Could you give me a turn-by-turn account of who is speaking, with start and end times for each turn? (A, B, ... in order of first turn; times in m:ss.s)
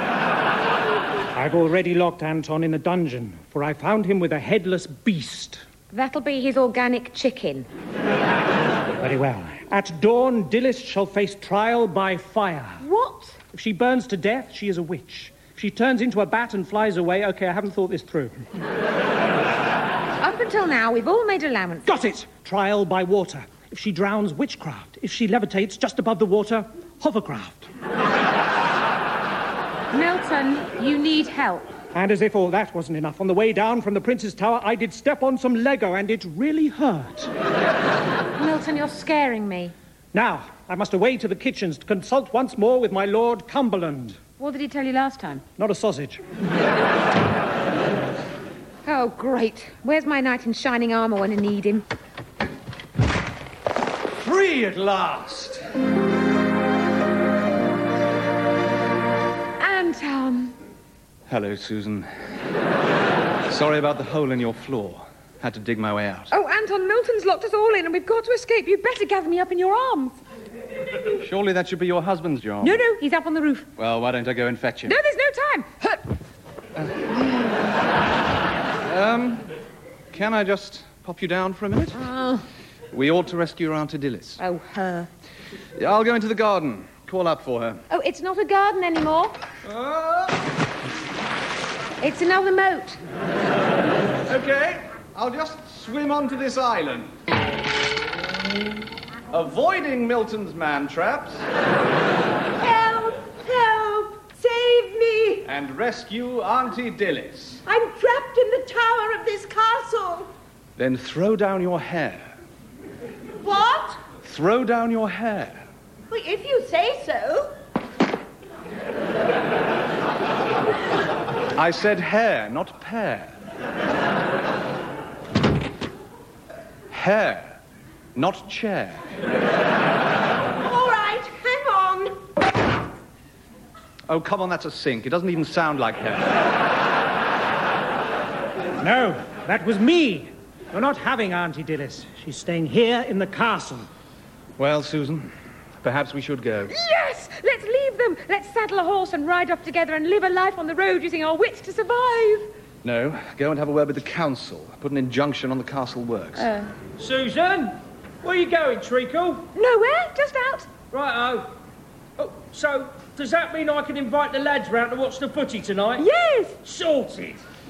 0:01.4-0:05.6 A
0:05.9-0:07.7 B
0:09.0-0:12.8 A
0:12.8-0:13.4 B
0:13.5-0:18.4 A
0:20.2-0:22.0 B
0:21.9-0:27.7 A
0:29.9-0:31.7 B
0:31.9-0:37.3 A
0:38.4-0:39.7 B
0:40.1-0:44.2 A
0:44.4-0:45.4 B
0:45.6-0:46.2 A
0:48.8-0:51.8 B
0:54.2-0:55.6 C
0:59.6-1:00.6 B
1:01.3-1:02.1 C
1:03.5-1:06.3 C
1:06.3-1:10.2 B
1:11.2-1:12.8 C
1:12.6-1:13.7 B
1:13.8-1:15.0 C
1:14.8-1:16.0 B
1:16.8-1:17.6 C
1:18.8-1:19.5 C
1:20.1-1:22.1 C
1:22.0-1:22.4 B
1:22.9-1:24.4 C
1:24.4-1:25.1 B
1:25.8-1:27.8 C
1:27.9-1:29.4 B
1:29.6-1:30.4 C
1:32.0-1:33.0 B
1:34.3-1:37.1 C
1:39.3-1:41.4 C
1:42.6-1:45.5 D
1:45.5-1:47.6 C
1:47.6-1:50.3 D
1:50.8-1:52.3 C
1:53.4-1:54.0 D
1:54.2-1:55.6 C
1:56.1-1:57.5 D
2:01.6-2:03.3 C
2:06.9-2:07.6 C
2:08.2-2:09.0 C
2:10.6-2:12.2 D
2:14.1-2:16.3 C
2:18.8-2:23.9 A
2:24.6-2:26.7 C
2:26.7-2:32.5 B
2:32.8-2:36.5 C
2:36.4-2:36.7 B
2:37.0-2:39.5 E
2:39.6-2:40.7 B
2:40.9-2:41.5 E
2:42.2-2:46.1 E
2:46.6-2:47.4 E